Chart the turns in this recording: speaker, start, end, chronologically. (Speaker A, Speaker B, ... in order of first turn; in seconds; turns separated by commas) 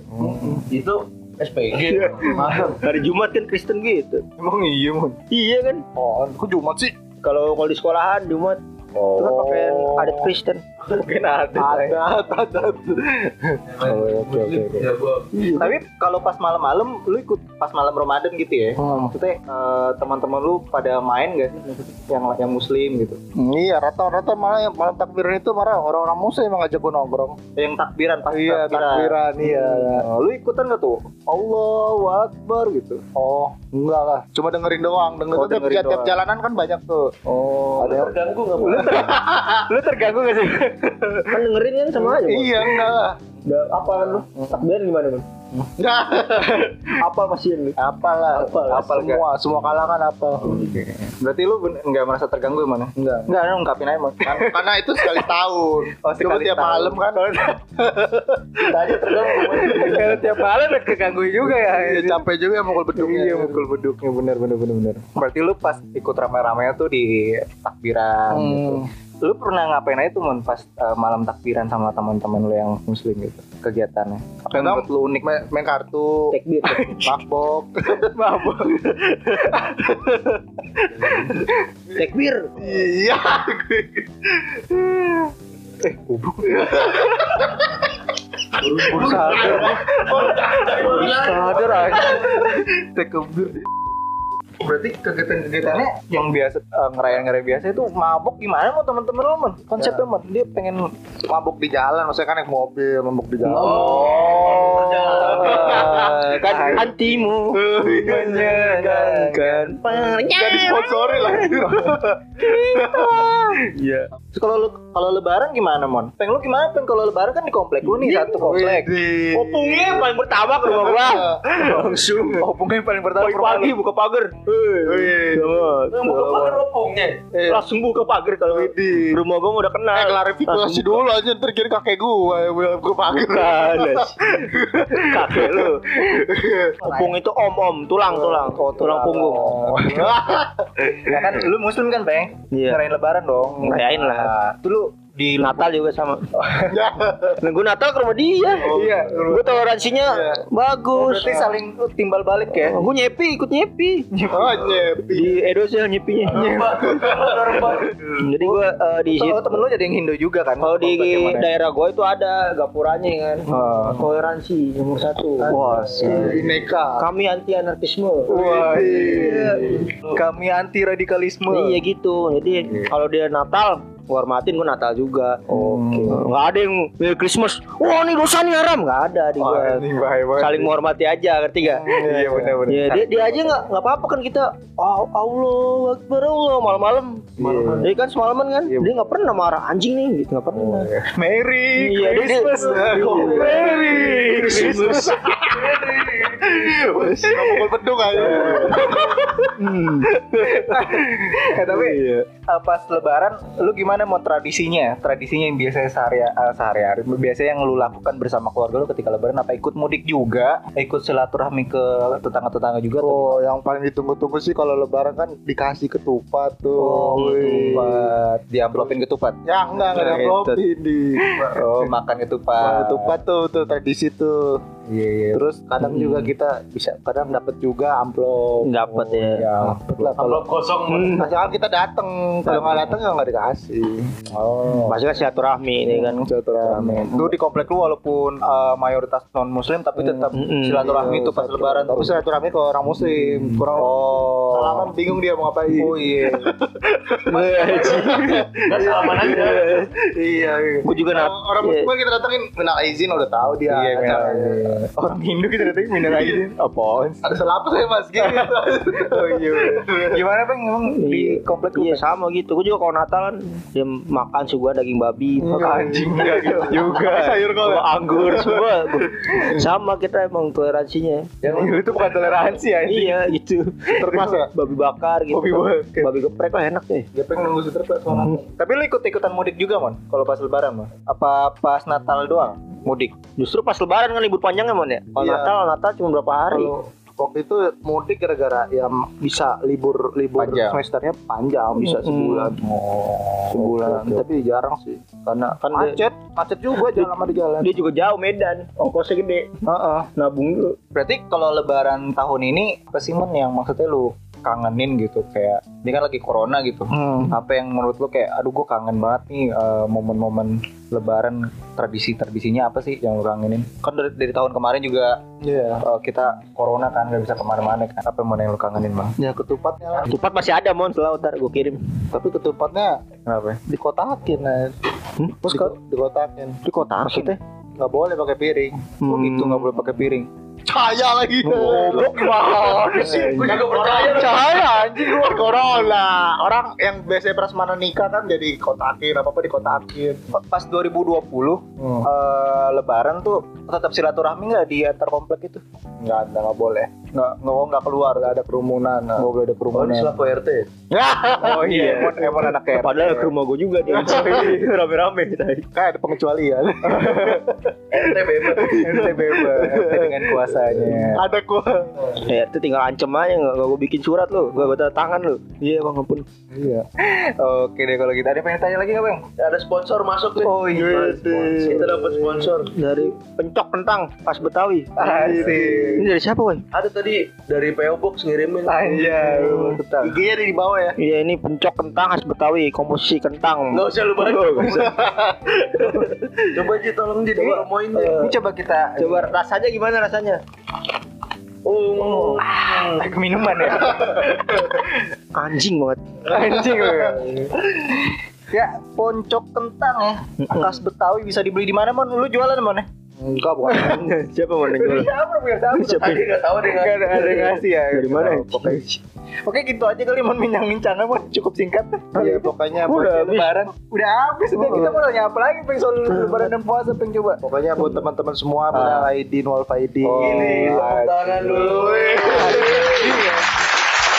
Speaker A: 0.1-0.7, Speaker B: 0.3-0.6, Speaker C: 0.7-2.9, Speaker D: 1.8-4.2, Speaker A: 4.4-5.2, Speaker D: 5.3-5.8, Speaker B: 5.9-6.9, Speaker D: 7.2-8.6, Speaker A: 9.0-9.5, Speaker D: 9.2-10.6, Speaker B: 9.2-10.3, Speaker A: 10.9-12.0, Speaker B: 11.6-13.6, Speaker C: 13.7-15.5, Speaker A: 13.8-14.9, Speaker D: 15.4-15.8, Speaker A: 15.5-23.2, Speaker B: 18.8-19.1, Speaker B: 23.4-27.4, Speaker A: 27.6-33.0, Speaker B: 28.3-30.1, Speaker B: 33.1-37.2, Speaker A: 35.3-36.2, Speaker A: 37.3-37.9, Speaker B: 37.8-39.6, Speaker C: 37.8-39.1, Speaker A: 38.6-41.5, Speaker D: 41.3-42.7, Speaker B: 42.0-43.2, Speaker A: 42.6-42.9, Speaker D: 43.4-45.2, Speaker B: 45.8-46.7, Speaker A: 46.4-46.8, Speaker D: 47.0-47.8, Speaker B: 47.8-50.7, Speaker A: 48.5-49.2, Speaker A: 50.4-55.2, Speaker B: 53.0-53.3, Speaker B: 54.2-57.2, Speaker A: 56.0-57.6, Speaker B: 57.8-60.0, Speaker C: 58.6-60.3, Speaker A: 59.4-62.2, Speaker B: 61.5-63.6, Speaker A: 62.9-75.4, Speaker B: 68.3-68.9, Speaker B: 74.5-76.4, Speaker D: 76.3-76.9, Speaker A: 76.6-77.2, Speaker B: 77.0-78.1, Speaker A: 78.0-80.1, Speaker A: 81.0-81.5, Speaker C: 81.0-81.4, Speaker D: 81.9-82.5, Speaker B: 82.6-85.2, Speaker A: 85.8-87.4, Speaker B: 86.6-87.7, Speaker C: 88.6-92.3, Speaker A: 88.8-93.6, Speaker B: 88.8-90.3, Speaker B: 91.0-91.3, Speaker A: 94.6-100.9, Speaker B: 101.3-106.1, Speaker C: 103.5-106.0, Speaker A: 103.5-107.1, Speaker D: 103.9-104.5, Speaker D: 105.0-107.6, Speaker B: 107.5-108.4, Speaker A: 107.9-109.8, Speaker C: 108.2-108.8, Speaker D: 108.8-111.6, Speaker B: 110.2-113.3, Speaker A: 112.4-113.6, Speaker D: 113.7-114.1, Speaker A: 114.3-118.9, Speaker D: 117.8-118.3, Speaker B: 118.3-122.3, Speaker D: 119.3-122.4, Speaker A: 121.5-123.8, Speaker D: 123.2-126.3, Speaker B: 124.8-125.6, Speaker C: 125.9-127.2, Speaker A: 126.1-126.6, Speaker B: 127.3-127.6, Speaker D: 127.5-131.0, Speaker B: 128.5-129.2, Speaker B: 129.9-136.8, Speaker D: 133.1-134.2, Speaker D: 134.9-135.9, Speaker A: 136.8-137.2, Speaker D: 136.8-139.6, Speaker A: 138.0-140.2, Speaker B: 139.5-141.2, Speaker A: 140.8-145.7, Speaker D: 142.5-142.8, Speaker D: 143.6-144.3, Speaker D: 145.4-146.3, Speaker A: 146.4-146.7, Speaker B: 146.7-147.4, Speaker D: 147.4-151.5, Speaker A: 148.6-149.9, Speaker B: 150.0-150.4, Speaker A: 150.9-152.8, Speaker D: 152.5-154.1, Speaker A: 154.1-154.8, Speaker B: 154.3-155.4, Speaker D: 155.1-156.6, Speaker C: 156.2-158.0, Speaker A: 156.3-156.8, Speaker B: 156.8-157.1, Speaker A: 157.7-161.5, Speaker D: 158.2-159.6, Speaker D: 160.6-169.8, Speaker A: 163.5-164.1, Speaker B: 165.4-167.1, Speaker A: 165.5-166.4, Speaker A: 168.3-171.8, Speaker B: 168.3-169.8, Speaker C: 169.0-170.1, Speaker D: 171.5-179.8, Speaker A: 172.5-172.9, Speaker A: 175.5-176.3, Speaker B: 175.5-175.8, Speaker A: 179.4-180.7, Speaker D: 180.4-181.9, Speaker B: 181.6-182.6, Speaker A: 181.8-183.7, Speaker D: 182.7-187.2, Speaker A: 187.4-187.9, Speaker C: 187.4-187.9, Speaker D: 187.8-190.9, Speaker A: 188.7-189.1, Speaker A: 190.5-195.3, Speaker D: 191.8-195.1, Speaker C: 192.6-197.7, Speaker B: 192.7-193.7, Speaker B: 194.5-199.3, Speaker A: 197.0-197.5, Speaker A: 198.1-199.7, Speaker D: 198.2-198.8, Speaker D: 199.4-200.2, Speaker A: 200.3-213.4, Speaker D: 201.6-202.2, Speaker B: 213.0-218.1, Speaker A: 216.8-220.5, Speaker D: 217.1-217.9, Speaker B: 219.5-221.9, Speaker D: 219.9-220.6, Speaker A: 221.5-223.2, Speaker B: 222.6-224.6, Speaker A: 224.9-225.5, Speaker B: 225.3-228.7, Speaker D: 228.6-229.5, Speaker A: 228.8-230.2, Speaker B: 229.6-234.2, Speaker C: 230.2-231.3, Speaker D: 230.9-231.2, Speaker A: 232.5-232.9, Speaker A: 234.3-235.2, Speaker D: 234.8-236.2, Speaker B: 235.9-237.3, Speaker A: 236.0-242.2, Speaker D: 240.0-241.4, Speaker B: 240.8-254.8, Speaker A: 243.5-244.9, Speaker A: 245.8-246.5, Speaker D: 247.2-248.5, Speaker C: 247.3-249.8, Speaker D: 249.1-249.9, Speaker D: 250.8-251.9, Speaker A: 253.7-257.4, Speaker B: 255.9-256.4, Speaker B: 257.2-260.2, Speaker A: 258.2-262.0, Speaker D: 260.9-271.3, Speaker B: 265.4-269.6, Speaker A: 265.5-267.4, Speaker B: 271.4-272.2, Speaker A: 271.4-273.4, Speaker D: 272.9-277.1, Speaker B: 274.0-274.5, Speaker A: 274.0-274.4, Speaker A: 275.3-276.1, Speaker B: 277.1-278.4, Speaker A: 278.1-283.1, Speaker D: 278.1-278.4, Speaker D: 283.4-286.7, Speaker B: 285.1-285.6, Speaker B: 286.5-297.8, Speaker A: 290.4-290.8, Speaker D: 291.8-292.5, Speaker A: 292.6-294.2, Speaker D: 295.6-296.0, Speaker D: 296.9-299.6, Speaker B: 299.7-300.1, Speaker D: 300.1-300.8, Speaker A: 300.9-315.2, Speaker B: 306.9-307.3, Speaker B: 315.4-315.8, Speaker A: 315.8-319.1, Speaker B: 319.2-320.1, Speaker D: 319.9-321.8, Speaker B: 322.1-323.0, Speaker A: 323.2-323.6, Speaker B: 323.7-324.8, Speaker D: 325.2-325.7, Speaker B: 325.4-326.6, Speaker D: 326.6-327.4, Speaker A: 327.0-327.4, Speaker B: 327.8-328.8, Speaker D: 329.0-329.9, Speaker A: 329.1-330.3, Speaker B: 330.6-340.2, Speaker A: 331.5-335.6, Speaker D: 331.5-333.6, Speaker C: 333.0-334.6, Speaker A: 340.3-350.1, Speaker B: 341.8-342.1, Speaker B: 348.9-349.3, Speaker C: 349.7-350.7, Speaker B: 350.9-352.6, Speaker A: 351.4-353.4, Speaker D: 351.5-352.1, Speaker D: 352.7-355.7, Speaker A: 353.9-354.7, Speaker B: 355.8-362.2, Speaker A: 356.8-357.4, Speaker C: 357.9-359.1, Speaker A: 358.6-361.2, Speaker D: 362.2-366.2, Speaker A: 366.5-369.2, Speaker C: 369.4-372.8, Speaker A: 370.4-371.9, Speaker B: 370.7-372.3, Speaker D: 372.6-374.9, Speaker A: 375.0-376.1, Speaker B: 375.0-375.9, Speaker D: 375.9-376.6, Speaker C: 376.7-379.2, Speaker A: 378.6-380.2, Speaker D: 379.4-379.8, Speaker B: 380.0-381.0, Speaker D: 381.0-384.8, Speaker C: 383.7-388.3, Speaker B: 384.7-385.5, Speaker D: 387.4-387.7, Speaker A: 387.9-389.4, Speaker D: 389.0-390.4, Speaker C: 391.6-393.1, Speaker D: 392.0-392.4, Speaker A: 392.4-395.0, Speaker D: 395.3-396.0, Speaker A: 396.2-402.9, Speaker B: 396.5-397.2, Speaker D: 400.5-400.8, Speaker B: 403.2-404.0, Speaker A: 403.7-404.0, Speaker D: 403.7-405.1, Speaker A: 404.6-412.5, Speaker D: 405.8-406.2, Speaker C: 405.9-407.6, Speaker D: 407.9-408.9, Speaker B: 412.1-413.2, Speaker D: 412.9-413.6, Speaker A: 413.0-417.4, Speaker B: 414.6-415.0, Speaker D: 416.1-416.5, Speaker B: 417.4-420.9, Speaker A: 418.7-419.1, Speaker A: 420.0-423.4, Speaker C: 420.2-423.2, Speaker B: 421.6-423.1